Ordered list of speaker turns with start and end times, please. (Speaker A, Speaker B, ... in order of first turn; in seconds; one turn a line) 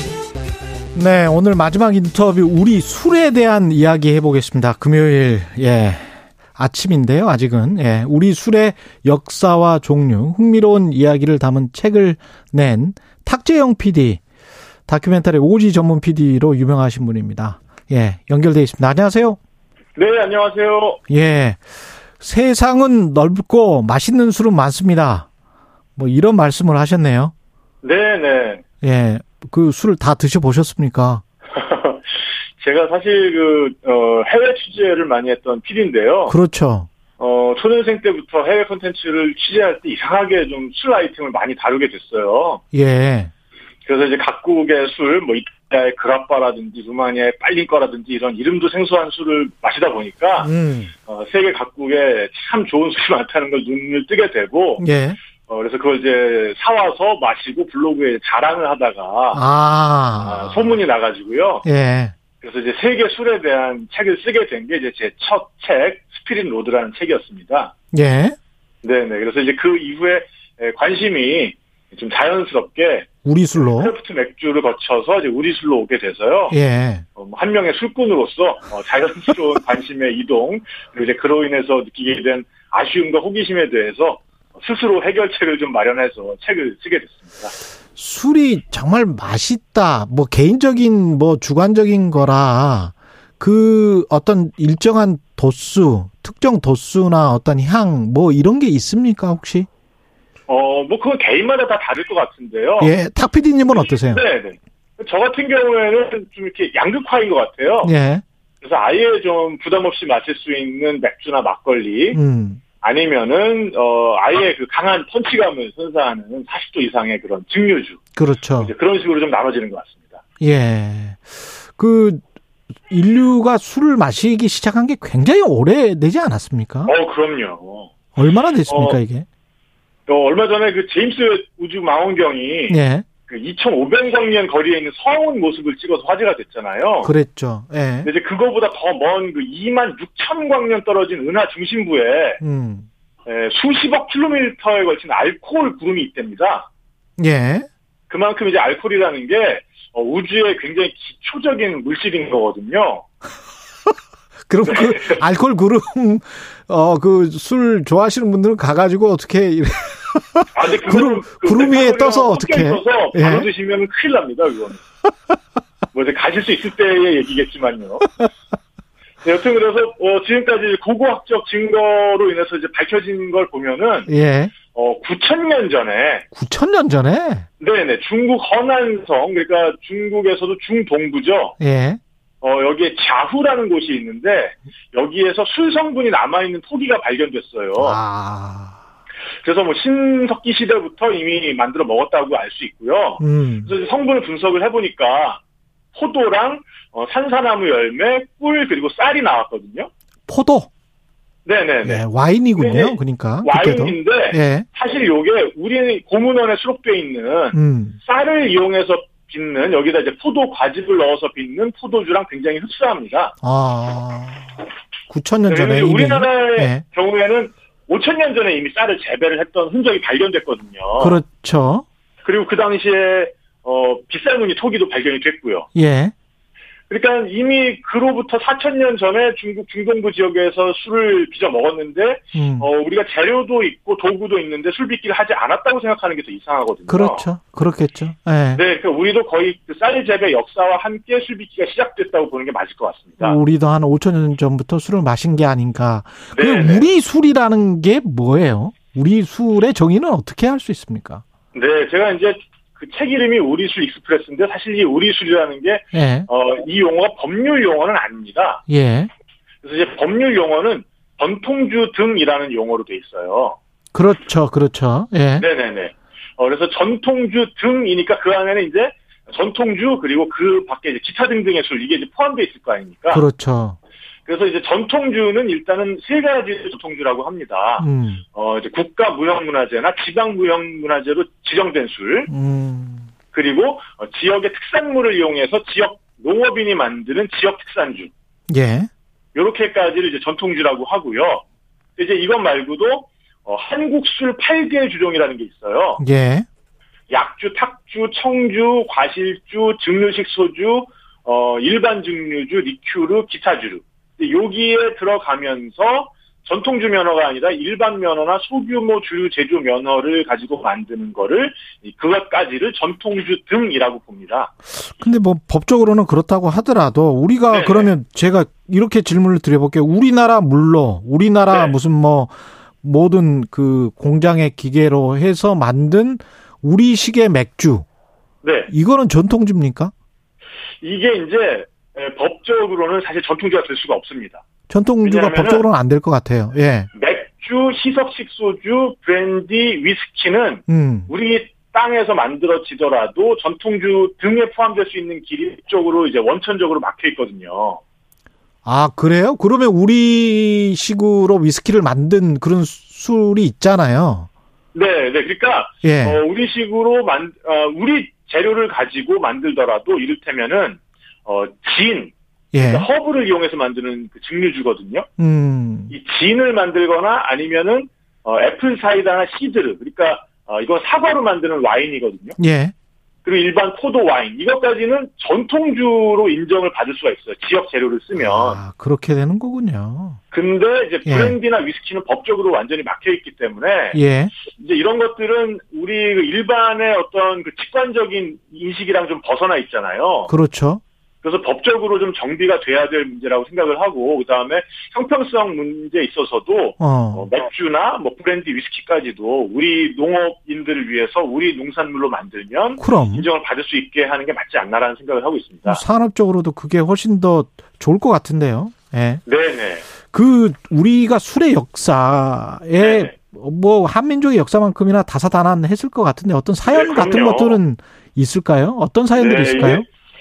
Speaker A: 0.9-14.2
Speaker A: 14.9-19.4
Speaker B: 19.9-21.0
Speaker A: 21.1-21.6
Speaker A: 22.2-25.3
Speaker A: 26.0-27.3
Speaker B: 27.8-28.6
Speaker A: 28.8-31.2
Speaker B: 31.5-36.4
Speaker A: 36.3-36.9
Speaker B: 37.2-42.6
Speaker A: 42.7-43.3
Speaker B: 43.9-54.9
Speaker A: 50.4-50.9
Speaker A: 54.8-55.2
Speaker B: 55.5-59.4
Speaker A: 59.3-60.8
Speaker B: 60.2-61.7
Speaker A: 61.6-62.1
Speaker B: 62.4-67.7
Speaker A: 67.9-68.4
Speaker B: 68.8-76.6
Speaker A: 73.2-73.9
Speaker A: 76.5-77.0
Speaker B: 77.2-87.5
Speaker A: 88.0-99.7
Speaker B: 100.5-103.0
Speaker A: 102.8-104.2
Speaker B: 103.7-108.0
Speaker A: 107.8-108.2
Speaker B: 108.6-112.2
Speaker A: 112.1-112.6
Speaker B: 112.8-118.0
Speaker A: 118.2-118.7
Speaker B: 118.6-120.2
Speaker A: 120.4-122.2
Speaker A: 122.9-126.9
Speaker B: 126.9-127.9
Speaker A: 128.2-129.3
Speaker B: 128.7-129.0
Speaker B: 130.1-137.1
Speaker A: 132.7-133.1
Speaker A: 137.0-138.1
Speaker B: 138.0-142.4
Speaker A: 142.4-142.9
Speaker B: 143.2-146.7
Speaker A: 147.2-147.7
Speaker B: 148.1-153.1
Speaker A: 154.5-163.5
Speaker B: 154.7-155.2
Speaker B: 160.5-164.8
Speaker B: 165.9-168.1
Speaker B: 169.2-174.1
Speaker A: 174.1-174.5
Speaker B: 174.7-176.3
Speaker A: 176.3-177.5
Speaker B: 177.6-181.6
Speaker A: 181.6-182.0
Speaker B: 182.4-188.0
Speaker A: 187.8-188.8
Speaker B: 189.4-195.4
Speaker A: 193.2-193.7
Speaker B: 195.9-199.9
Speaker A: 200.3-200.7
Speaker B: 201.4-202.0
Speaker A: 201.8-204.7
Speaker B: 202.6-213.3
Speaker A: 207.5-208.0
Speaker A: 213.4-214.5
Speaker A: 215.1-216.8
Speaker B: 215.5-221.2
Speaker A: 221.0-221.8
Speaker B: 222.2-225.7
Speaker A: 225.8-226.1
Speaker B: 226.9-237.3
Speaker A: 232.3-232.7
Speaker A: 236.9-238.6
Speaker B: 238.5-243.4
Speaker A: 243.2-251.2
Speaker B: 246.3-246.9
Speaker B: 251.5-258.6
Speaker A: 255.9-256.3
Speaker A: 258.7-259.1
Speaker B: 259.6-263.6
Speaker A: 263.9-265.4
Speaker B: 265.4-273.3
Speaker A: 273.1-273.8
Speaker B: 274.3-282.3
Speaker A: 277.8-278.2
Speaker A: 282.3-283.1
Speaker B: 283.3-288.1
Speaker A: 288.5-288.9
Speaker B: 289.3-291.4
Speaker B: 292.0-296.0
Speaker A: 296.0-296.5
Speaker B: 297.1-314.5
Speaker A: 314.8-327.9
Speaker B: 317.5-317.9
Speaker B: 321.5-321.8
Speaker B: 328.4-328.7
Speaker A: 328.7-329.9
Speaker B: 330.8-334.4
Speaker A: 334.7-336.9
Speaker B: 335.0-335.7
Speaker B: 336.9-347.8
Speaker A: 340.7-341.1
Speaker A: 348.6-354.3
Speaker B: 354.7-365.1
Speaker A: 355.8-356.2
Speaker A: 362.5-362.9
Speaker A: 365.2-365.9
Speaker B: 365.9-372.4
Speaker A: 372.4-372.7
Speaker B: 373.2-378.6
Speaker A: 378.2-380.2
Speaker B: 380.3-390.3
Speaker A: 381.1-381.4
Speaker A: 383.9-384.3
Speaker A: 390.3-390.8
Speaker B: 391.2-405.8
Speaker A: 396.8-397.3
Speaker A: 402.8-403.3
Speaker A: 405.7-409.2
Speaker B: 409.3-409.9
Speaker A: 410.1-419.9
Speaker B: 412.8-413.1
Speaker B: 416.6-417.6
Speaker B: 419.2-419.9